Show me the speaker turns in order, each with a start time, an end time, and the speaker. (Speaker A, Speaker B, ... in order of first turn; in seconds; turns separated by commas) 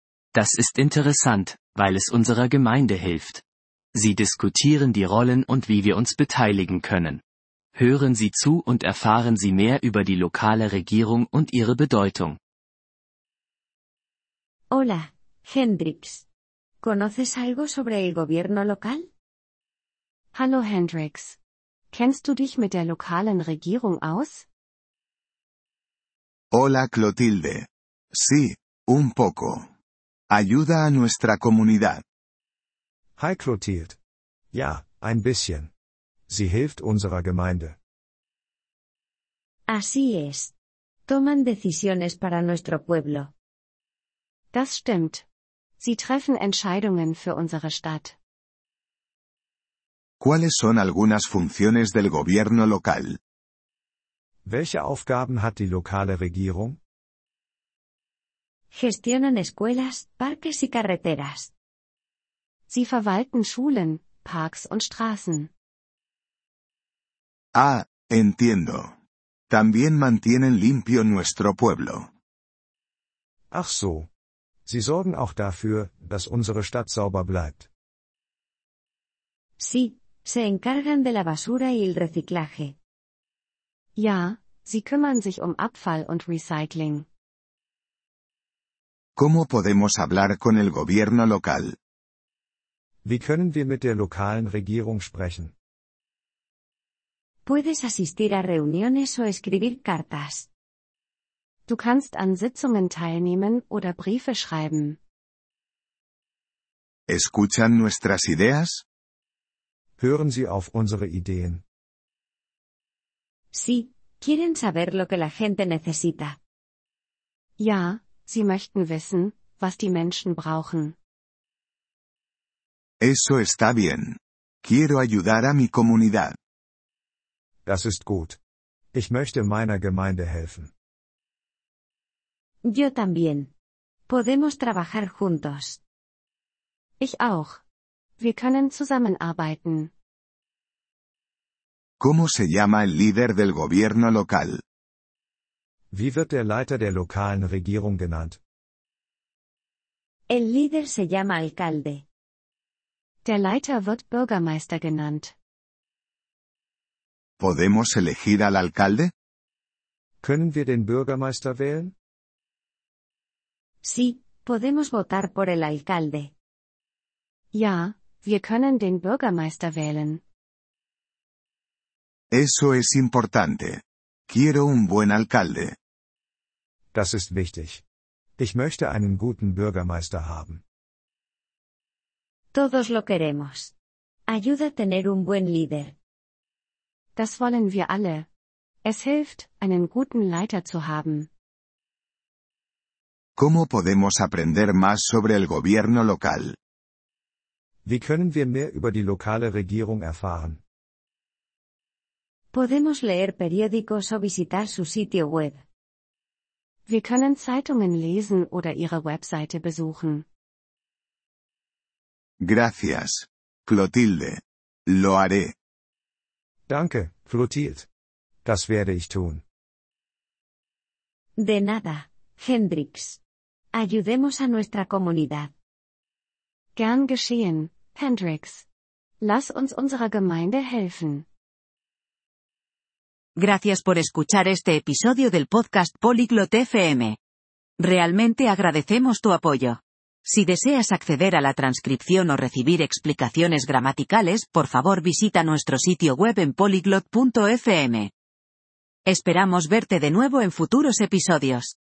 Speaker A: 0.3-3.4, Speaker A: 3.9-7.2, Speaker A: 7.7-12.4, Speaker B: 14.7-16.2, Speaker B: 16.8-19.1, Speaker C: 20.3-21.4, Speaker C: 21.9-24.5, Speaker D: 26.5-29.7, Speaker D: 30.3-32.0, Speaker E: 33.2-34.0, Speaker E: 34.5-35.7, Speaker E: 36.3-37.8, Speaker B: 39.7-40.5, Speaker B: 41.1-43.3, Speaker C: 44.5-45.2, Speaker C: 45.8-48.1, Speaker D: 50.2-53.2, Speaker E: 54.5-56.8, Speaker B: 58.7-61.5, Speaker C: 62.7-65.5, Speaker D: 67.6-69.0, Speaker D: 69.5-72.1, Speaker E: 73.5-74.1, Speaker E: 74.7-77.7, Speaker B: 79.6-82.8, Speaker C: 84.0-87.1, Speaker D: 89.2-91.8, Speaker E: 93.0-95.5, Speaker B: 97.5-100.5, Speaker C: 101.7-105.0, Speaker D: 107.1-108.8, Speaker E: 110.0-111.6, Speaker B: 113.5-116.4, Speaker C: 117.6-121.0, Speaker D: 123.0-126.3, Speaker E: 127.7-128.4, Speaker E: 128.9-130.7, Speaker B: 132.7-133.5, Speaker B: 134.1-135.8, Speaker C: 137.0-137.6, Speaker C: 138.2-139.9, Speaker D: 142.0-144.6, Speaker E: 145.9-148.4, Speaker B: 150.3-152.0, Speaker C: 153.2-155.3, Speaker D: 157.4-159.1, Speaker E: 160.2-161.9, Speaker B: 163.8-166.3, Speaker C: 167.5-170.2, Speaker D: 172.3-175.8, Speaker E: 176.9-177.8, Speaker E: 178.4-180.6, Speaker B: 182.5-183.7, Speaker B: 184.3-185.9, Speaker C: 187.2-188.3, Speaker C: 188.8-191.3, Speaker D: 193.4-196.6, Speaker E: 197.9-200.6, Speaker B: 202.5-205.6, Speaker C: 206.9-210.3, Speaker D: 212.4-215.5, Speaker E: 216.7-217.9, Speaker E: 218.4-219.4, Speaker B: 221.4-223.2, Speaker B: 223.7-225.5, Speaker C: 226.8-228.7, Speaker C: 229.2-231.3, Speaker F: 233.4-237.2, Speaker F: 237.8-248.1, Speaker F: 249.1-251.8